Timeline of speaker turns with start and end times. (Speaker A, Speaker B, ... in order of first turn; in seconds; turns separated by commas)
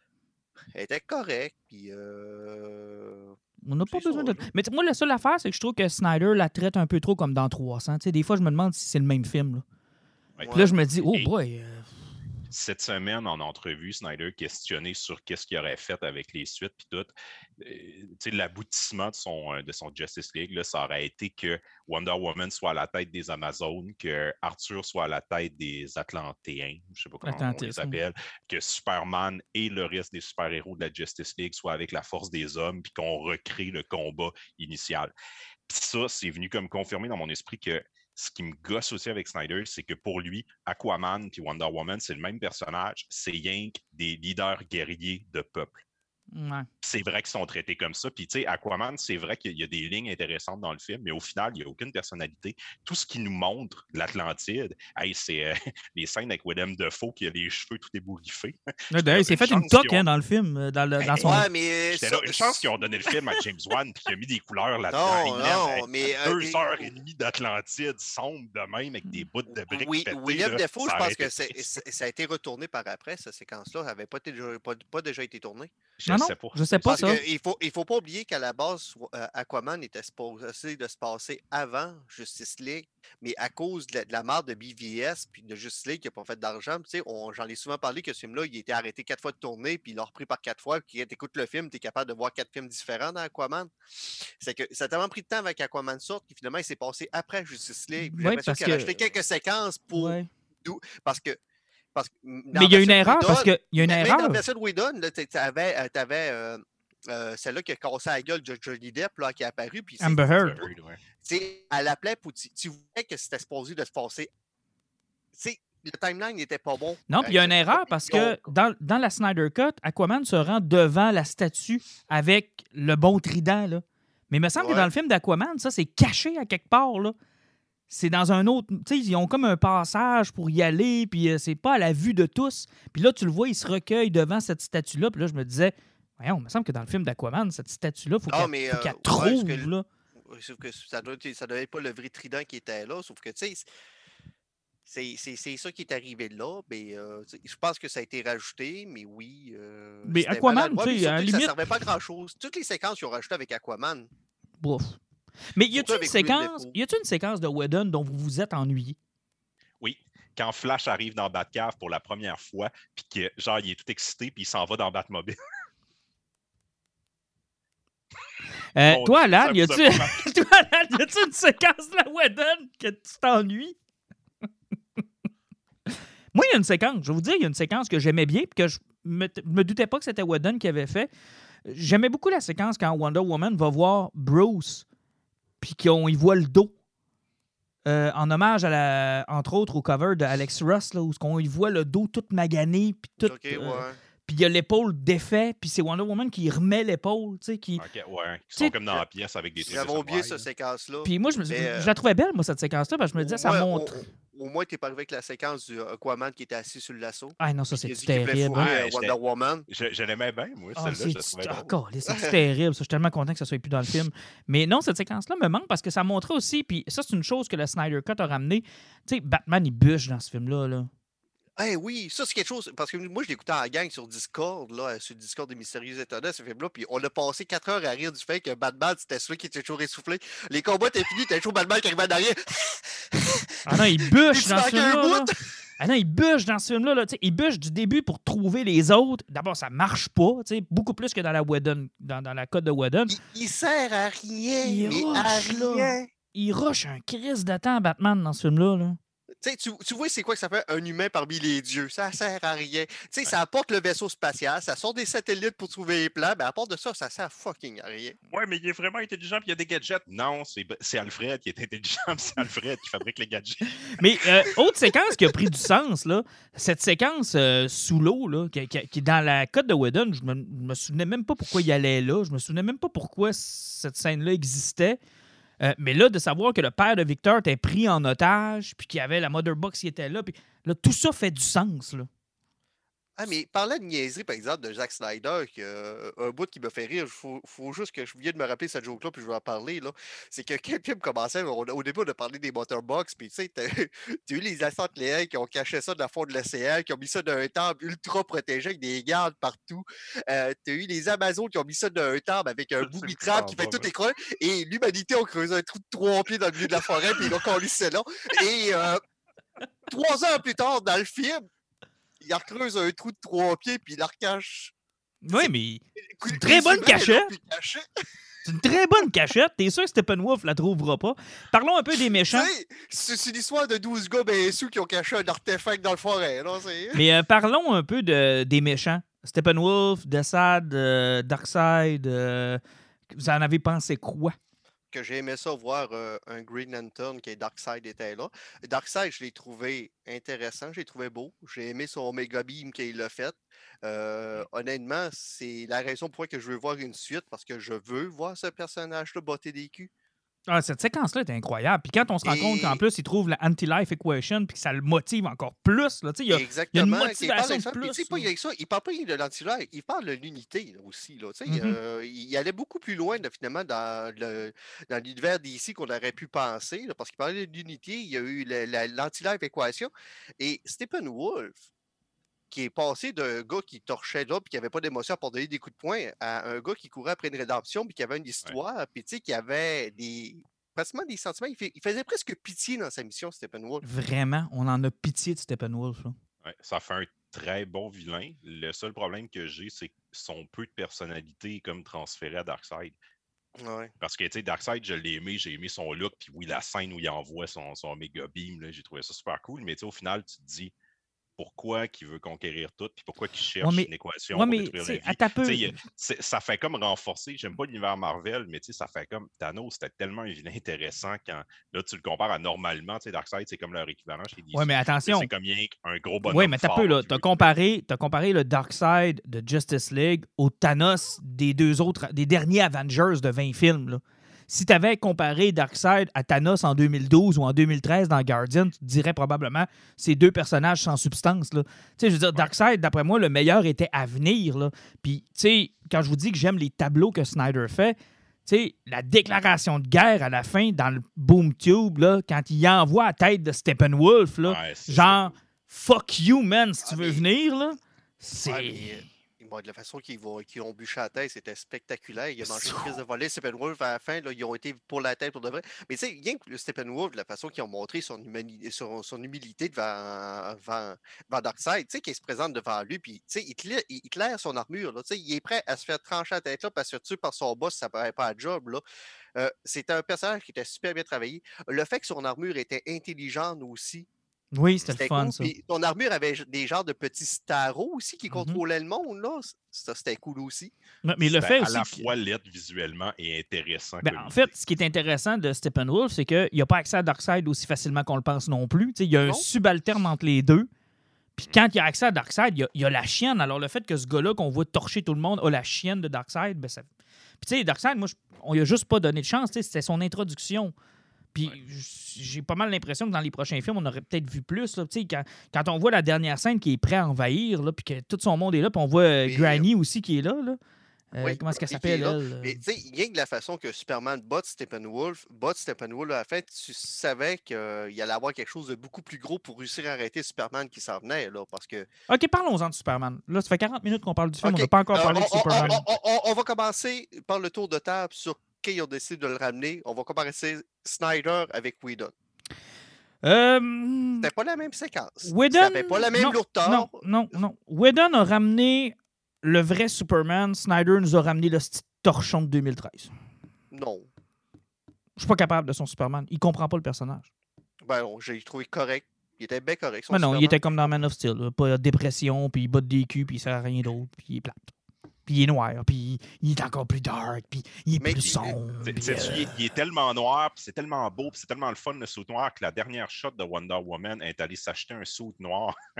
Speaker A: 0.7-3.3, Speaker B: 3.6-9.6, Speaker A: 3.9-4.4, Speaker A: 10.4-10.7, Speaker B: 10.5-11.9, Speaker C: 12.5-35.1, Speaker B: 27.2-28.0, Speaker C: 35.7-45.8, Speaker B: 46.3-46.7, Speaker C: 46.8-60.0, Speaker B: 58.9-61.5, Speaker A: 61.0-62.7, Speaker C: 61.2-71.7, Speaker A: 64.9-67.0, Speaker A: 69.7-75.7, Speaker C: 76.0-77.1, Speaker B: 76.1-77.2, Speaker A: 76.8-93.7, Speaker A: 94.4-101.4, Speaker B: 98.0-98.9, Speaker B: 100.0-100.3, Speaker A: 101.9-110.7, Speaker B: 102.5-104.4, Speaker B: 110.0-110.6, Speaker C: 110.4-111.0, Speaker A: 111.2-114.3, Speaker A: 115.3-118.5, Speaker B: 117.1-127.1, Speaker A: 124.6-124.9, Speaker B: 127.9-139.8, Speaker A: 138.3-139.7, Speaker A: 140.2-143.7, Speaker A: 144.9-154.1, Speaker B: 150.1-151.6, Speaker B: 154.6-155.0, Speaker B: 155.5-159.0, Speaker A: 155.7-156.7, Speaker C: 159.8-165.3, Speaker B: 168.8-173.8, Speaker C: 168.8-170.2, Speaker B: 176.3-181.1, Speaker B: 181.7-184.8, Speaker B: 185.6-186.7, Speaker B: 187.8-197.8, Speaker A: 193.2-194.0, Speaker C: 197.8-200.4, Speaker A: 199.6-201.9, Speaker B: 201.0-204.1, Speaker A: 203.2-209.7, Speaker B: 207.4-208.7, Speaker C: 208.5-209.1, Speaker C: 209.7-211.7, Speaker B: 210.8-220.9, Speaker A: 212.1-212.4, Speaker A: 221.6-235.3, Speaker B: 233.6-243.2, Speaker A: 243.1-246.1, Speaker B: 244.6-249.0, Speaker A: 249.4-258.2, Speaker C: 258.3-264.0, Speaker B: 263.9-275.0, Speaker B: 275.6-282.1, Speaker A: 283.2-309.0, Speaker C: 302.8-303.9, Speaker A: 309.9-311.4, Speaker A: 312.2-314.7, Speaker B: 315.2-317.3, Speaker A: 316.1-317.9, Speaker B: 318.4-322.5, Speaker A: 322.3-327.0, Speaker B: 326.9-334.4, Speaker A: 334.9-349.9, Speaker B: 350.5-358.3, Speaker A: 352.2-352.8, Speaker A: 356.3-371.6, Speaker B: 361.5-361.8, Speaker A: 372.5-383.8, Speaker B: 383.8-386.1, Speaker C: 386.4-392.9, Speaker A: 393.6-393.9, Speaker C: 394.0-400.7, Speaker C: 401.4-417.5, Speaker B: 403.6-405.8, Speaker B: 414.5-415.3, Speaker B: 416.2-448.9, Speaker C: 444.4-445.3, Speaker A: 446.8-447.2, Speaker A: 448.4-468.8, Speaker A: 469.3-474.1, Speaker B: 474.5-475.5, Speaker A: 474.9-480.7, Speaker B: 478.3-478.6, Speaker B: 481.0-482.0, Speaker C: 481.2-484.5, Speaker B: 484.0-490.7, Speaker B: 491.4-496.9, Speaker B: 497.4-500.7, Speaker B: 501.3-510.6, Speaker A: 509.2-509.6, Speaker B: 511.1-512.6, Speaker A: 511.2-521.9, Speaker B: 522.1-525.8, Speaker A: 524.4-532.1, Speaker B: 533.2-534.3, Speaker A: 534.2-537.0, Speaker B: 535.2-543.1, Speaker A: 543.7-544.1, Speaker B: 545.2-547.3, Speaker A: 547.8-550.6, Speaker B: 550.1-554.7, Speaker B: 555.2-559.5, Speaker A: 558.0-558.5, Speaker C: 558.2-565.7